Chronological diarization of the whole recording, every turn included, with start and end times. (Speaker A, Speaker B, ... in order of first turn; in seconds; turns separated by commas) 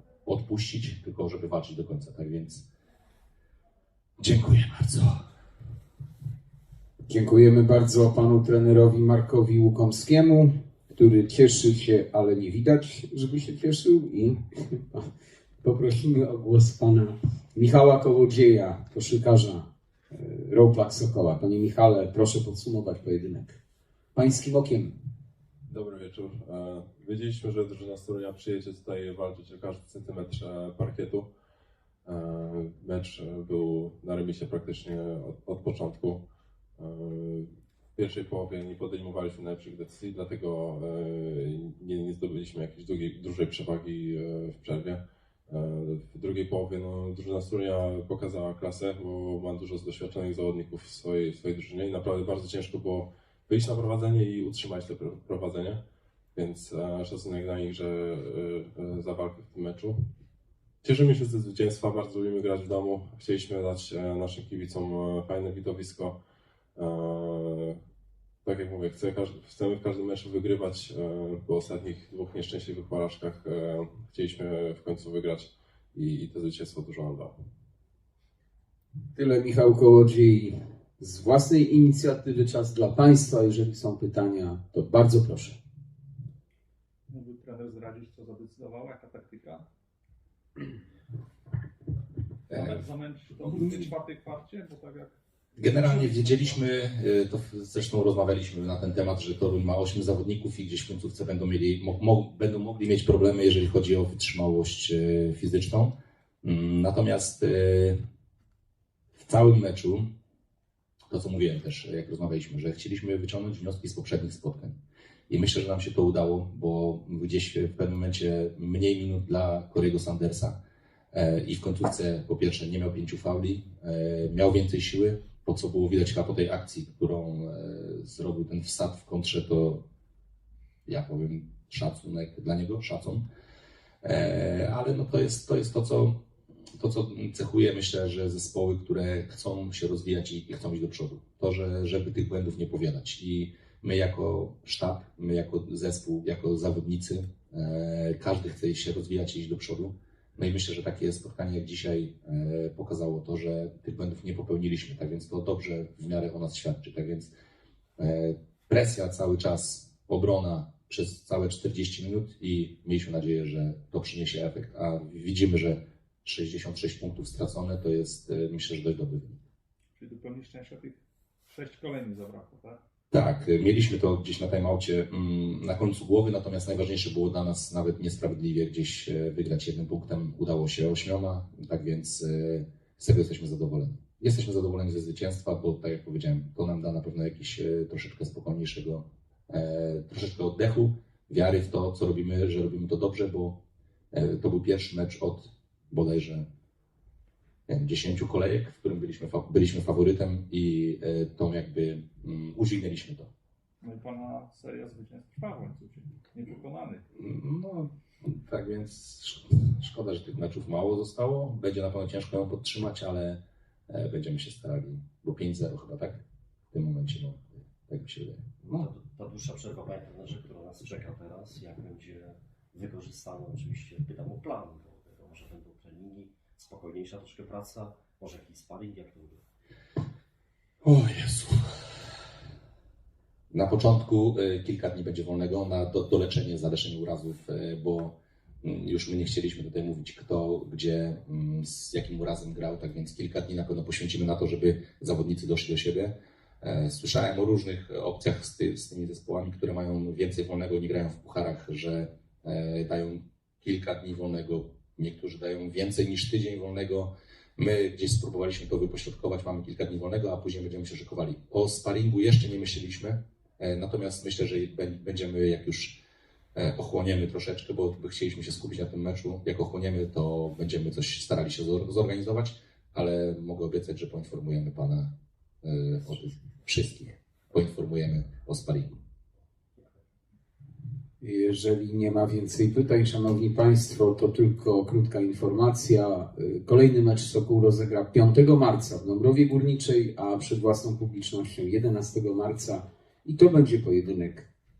Speaker A: 0.2-2.6, Speaker A: 4.2-5.2, Speaker B: 7.0-15.1, Speaker B: 15.6-23.6, Speaker B: 24.1-24.9, Speaker C: 25.7-31.3, Speaker C: 32.0-55.8, Speaker C: 56.3-60.0, Speaker C: 60.8-66.2, Speaker C: 66.7-67.8, Speaker C: 68.4-77.3, Speaker B: 79.1-85.6, Speaker D: 87.1-89.7, Speaker A: 92.5-92.8, Speaker D: 92.6-95.1, Speaker A: 95.6-108.0, Speaker A: 109.2-110.1, Speaker A: 111.1-114.8, Speaker A: 115.3-120.6, Speaker A: 121.1-129.8, Speaker A: 130.9-133.2, Speaker A: 134.0-136.2, Speaker A: 136.8-157.3, Speaker A: 158.0-169.4, Speaker D: 170.0-171.0, Speaker D: 171.5-172.8, Speaker A: 173.1-193.6, Speaker A: 194.1-196.4, Speaker A: 197.7-203.3, Speaker D: 203.8-207.0, Speaker A: 207.2-218.9, Speaker E: 218.6-229.5, Speaker A: 230.8-231.7, Speaker A: 233.5-266.0, Speaker A: 266.6-275.1, Speaker A: 275.6-278.9, Speaker E: 279.7-280.0, Speaker B: 281.2-294.5